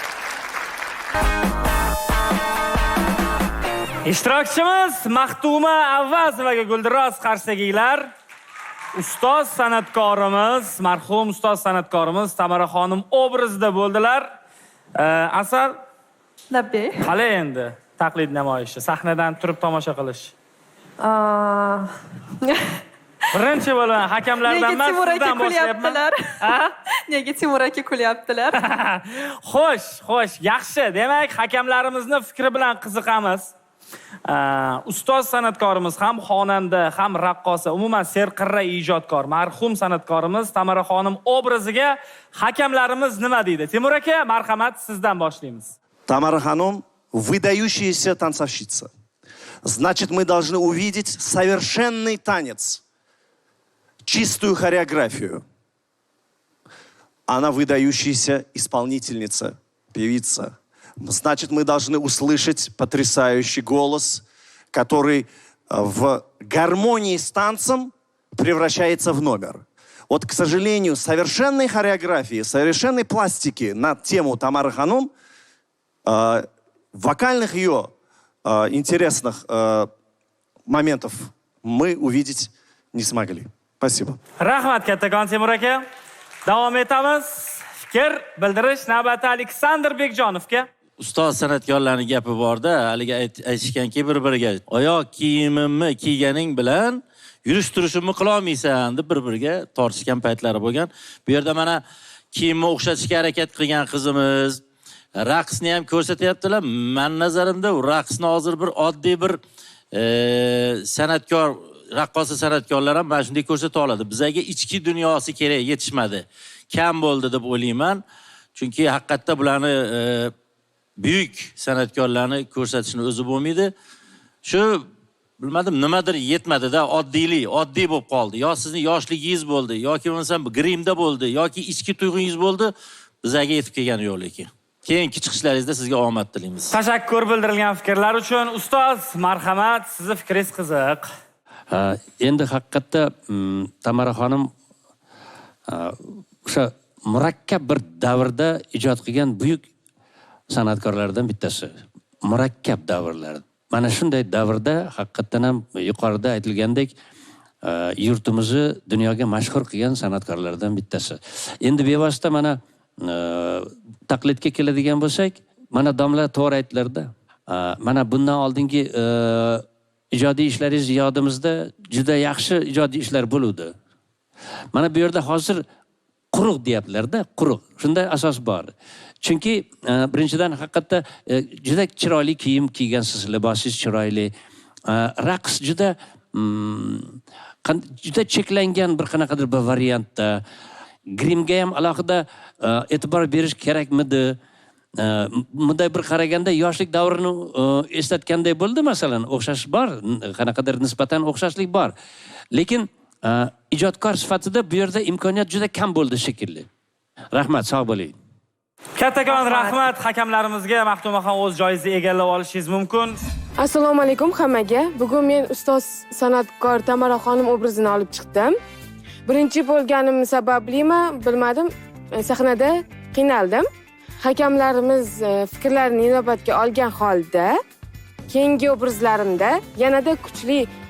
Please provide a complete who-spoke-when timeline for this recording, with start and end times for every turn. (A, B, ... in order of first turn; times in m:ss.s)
0:04.0-0:08.1 A
0:08.9-0:14.3 A
0:15.0-0:15.7 A
0:16.5-0:17.0 B
0:17.0-0:20.3 A
0:21.0-0:22.6 B
0:23.3-0:26.7 A
0:24.4-0:28.6 B
0:28.5-0:33.5 A
0:34.2-0:45.7 A
0:46.1-0:48.9 C
0:49.6-0:52.8 C
0:54.0-0:55.4 C
0:57.3-1:15.1 C
1:16.0-1:17.9 C
1:18.4-1:19.9 C
1:20.7-1:24.2 C
1:24.4-1:25.8 A
1:26.4-1:30.7 A
1:31.0-1:44.6 D
1:45.1-1:49.4 D
1:49.9-1:58.0 D
1:58.5-2:00.3 D
2:01.0-2:03.7 D
2:04.4-2:04.9 D
2:05.4-2:16.7 D
2:16.7-2:21.1 A
2:21.7-2:24.5 E
2:25.7-2:29.6 E
2:30.5-2:31.7 E
2:32.2-2:36.9 E
2:37.6-2:53.7 E
2:54.7-2:55.6 E
2:56.3-2:58.7 E
2:59.2-3:04.3 E
3:04.9-3:10.4 E
3:11.1-3:14.3 E
3:15.0-3:21.9 E
3:22.5-3:26.6 E
3:27.3-3:28.1 E
3:29.0-3:33.2 A
3:33.6-3:38.5 F
3:39.2-3:43.6 F
3:44.2-3:47.5 F
3:48.3-3:50.7 F